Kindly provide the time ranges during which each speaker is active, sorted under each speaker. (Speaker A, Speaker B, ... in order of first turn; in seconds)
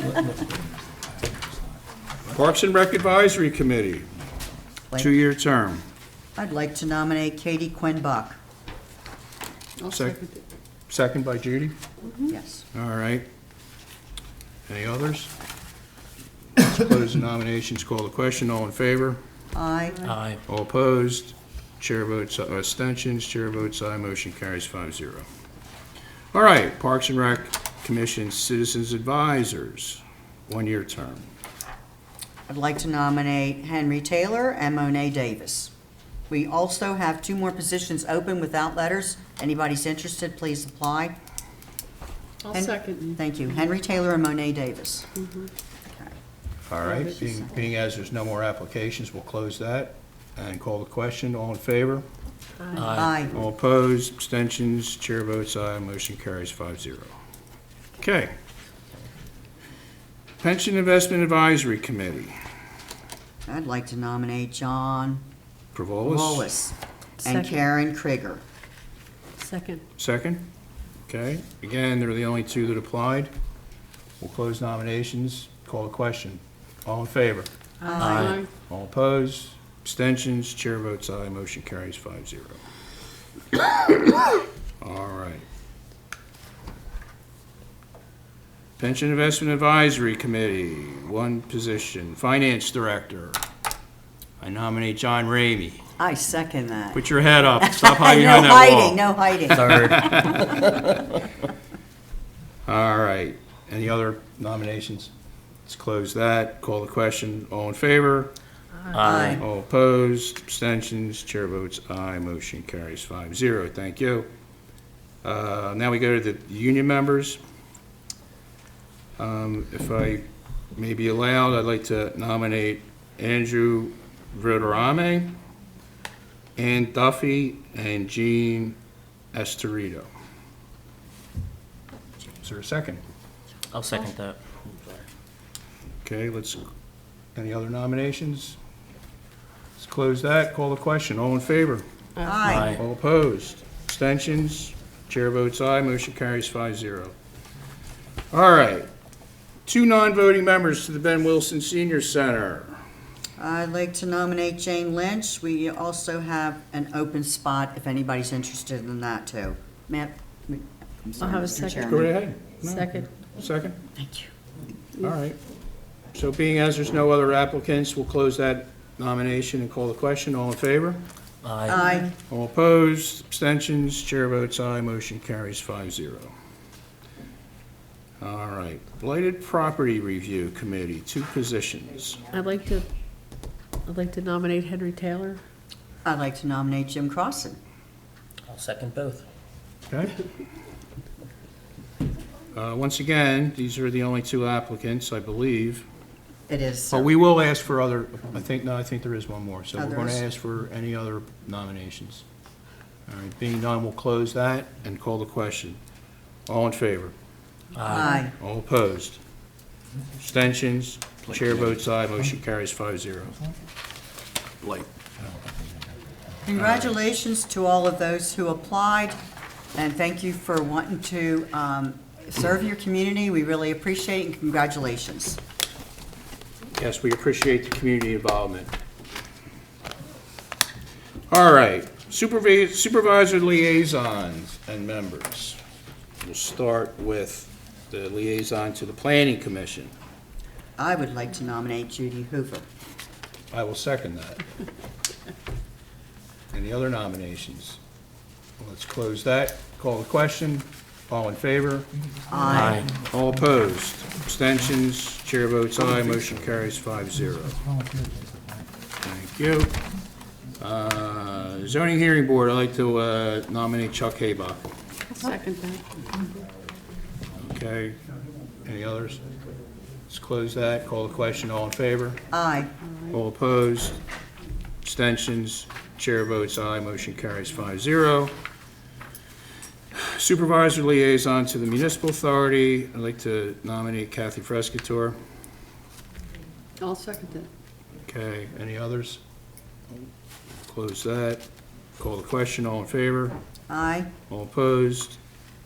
Speaker A: 2.3-4.1, 5.0-5.8, 9.8-10.2, 10.9-11.7, 12.7-13.3, 14.7-15.3, 16.6-19.2, 20.4-25.3, 26.3-31.3, 46.7-52.0, 53.3-57.1, 58.0-58.3, 60.4-62.4, 65.7-66.5, 70.0-70.5, 71.1-73.3, 74.2-77.5, 78.7-82.6, 84.8-85.4, 88.8-93.4, 94.4-95.8, 96.9-99.0, 99.7-100.6, 102.7-105.1, 105.7-108.3, 109.1-114.3, 115.2-117.4, 119.2-125.4, 126.6-128.8, 129.3-130.1, 132.4-133.0, 136.0-136.7, 137.3-138.6, 139.8-141.8, 142.5-147.1, 148.3-148.9, 149.7-152.8, 161.8-163.8, 165.0-165.4, 166.1-171.0, 172.3-176.3, 178.2-182.2, 189.9-190.2, 192.5-195.8, 196.9-202.2, 203.1-205.8, 206.5-207.1, 208.2-209.2, 210.2-213.4, 214.6-214.9, 216.5-216.9, 226.8-228.7, 231.3-235.6, 236.2-239.9, 243.5-244.4, 246.5-247.8, 248.6-251.9, 252.5-257.6, 259.0-259.7, 260.6-264.7, 267.4-268.0, 268.6-269.2, 270.1-272.2, 273.1-274.0, 274.8-278.3, 279.9-285.2, 288.0-289.2, 290.6-291.4, 292.0-293.4, 294.3-295.2
Speaker B: 6.3-8.4, 12.3-12.6, 19.5-20.1, 32.5-35.7, 36.3-41.1, 42.5-45.1, 46.8-47.5, 53.0-53.3, 63.5-65.2, 66.0-68.4, 77.8-78.4, 96.0-97.0, 97.5-99.9, 109.0-109.4, 142.2-142.8, 153.4-162.1, 163.9-164.3, 171.7-172.1, 186.0-187.6, 196.5-197.1, 199.7-200.2, 207.9-208.3, 216.4-219.2, 219.7-225.4, 240.8-242.7, 252.3-252.8, 272.3-272.7, 293.7-294.1
Speaker C: 9.8-10.4, 12.1-12.3, 42.4-43.2, 45.2-45.5, 52.6-52.9, 67.2-67.6, 69.4-69.8, 77.8-78.5, 161.2-161.9, 162.6-163.1, 182.3-182.9, 183.8-185.4, 265.1-265.8, 286.8-287.5
Speaker D: 20.1-20.4, 52.7-53.1, 78.0-78.4, 99.5-100.7, 108.9-109.4, 133.7-134.9, 142.5-142.8, 171.4-171.8, 188.5-189.3, 207.7-208.2, 211.3-211.7, 252.5-252.8